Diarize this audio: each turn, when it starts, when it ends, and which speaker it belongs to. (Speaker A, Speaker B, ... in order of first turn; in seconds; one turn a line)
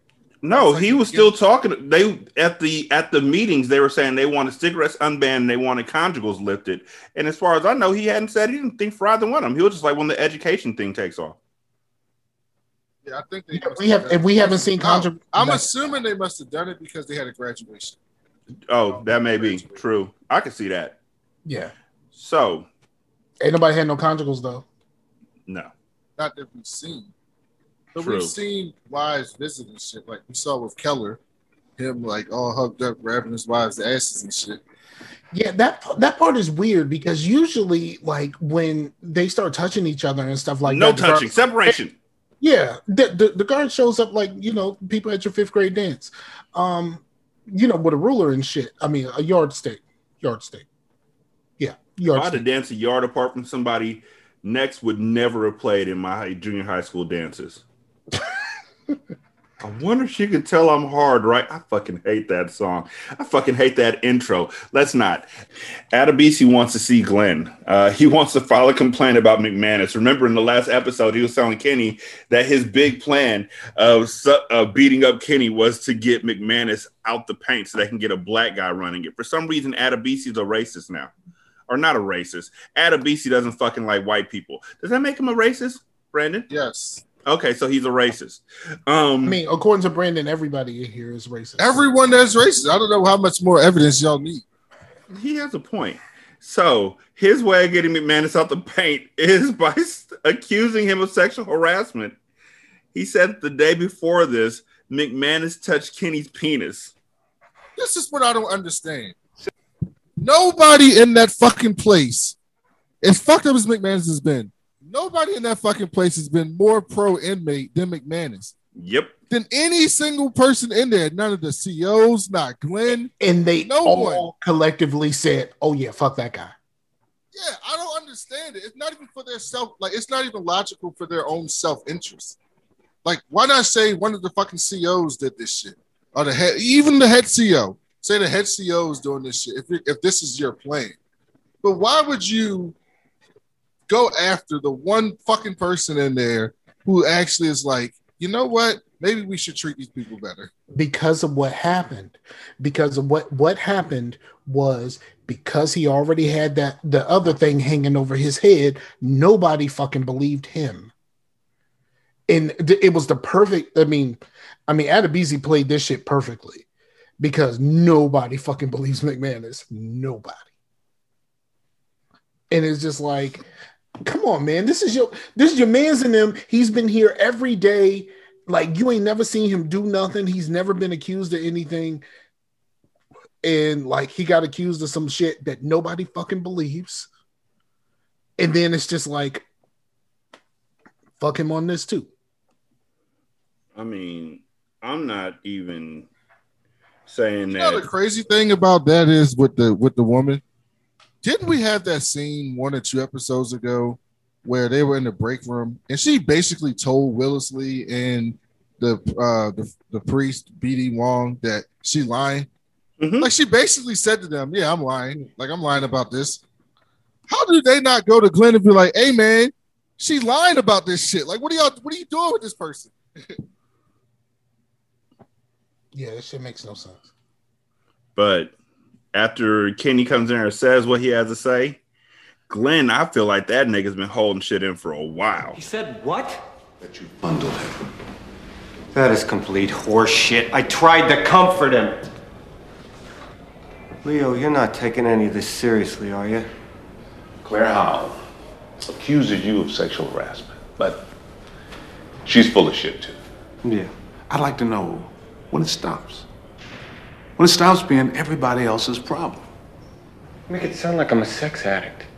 Speaker A: 0.4-11.4
Speaker B: 0.5-1.3
Speaker B: 13.0-18.0
Speaker C: 13.5-15.7
Speaker A: 18.7-21.0
Speaker B: 18.9-19.8
Speaker C: 21.5-21.7
Speaker A: 22.1-22.7
Speaker C: 23.4-24.7
Speaker B: 26.2-27.1
Speaker B: 27.9-31.2
Speaker A: 28.0-28.4
Speaker B: 31.8-34.6
Speaker C: 35.3-41.8
Speaker A: 40.6-42.0
Speaker C: 42.4-50.7
Speaker C: 51.6-52.5
Speaker A: 52.1-57.6
Speaker A: 59.6-65.3
Speaker A: 65.9-81.1
Speaker A: 81.7-86.5
Speaker B: 86.5-87.0
Speaker A: 87.3-89.4
Speaker C: 89.2-91.8
Speaker B: 91.6-94.5
Speaker A: 95.1-102.2
Speaker A: 102.9-107.0
Speaker B: 107.8-109.2
Speaker B: 110.2-112.4
Speaker B: 113.0-118.5
Speaker A: 118.8-119.2
Speaker B: 119.3-123.1
Speaker C: 123.2-126.5
Speaker B: 123.6-124.3
Speaker B: 127.3-132.4
Speaker B: 133.1-141.0
Speaker B: 141.6-142.8
Speaker B: 143.9-150.5
Speaker C: 150.8-160.9
Speaker C: 162.3-166.7
Speaker C: 167.2-170.5
Speaker C: 172.5-173.4
Speaker C: 174.0-182.0
Speaker C: 183.4-187.1
Speaker C: 188.4-189.5
Speaker C: 191.2-192.1
Speaker A: 193.8-196.1
Speaker A: 197.1-197.8
Speaker B: 197.5-200.4
Speaker B: 201.2-212.5
Speaker A: 213.0-213.3
Speaker B: 213.2-216.4
Speaker B: 217.3-223.4
Speaker C: 225.9-227.1
Speaker A: 228.2-228.5
Speaker A: 229.1-231.8
Speaker A: 232.5-235.6
Speaker D: 235.5-236.4
Speaker E: 236.8-237.8
Speaker D: 238.9-242.1
Speaker D: 244.0-246.5
Speaker E: 247.4-248.2
Speaker E: 248.8-251.1
Speaker E: 252.2-253.2
Speaker D: 253.6-253.9
Speaker E: 254.3-256.3
Speaker E: 257.4-259.5
Speaker D: 260.5-262.0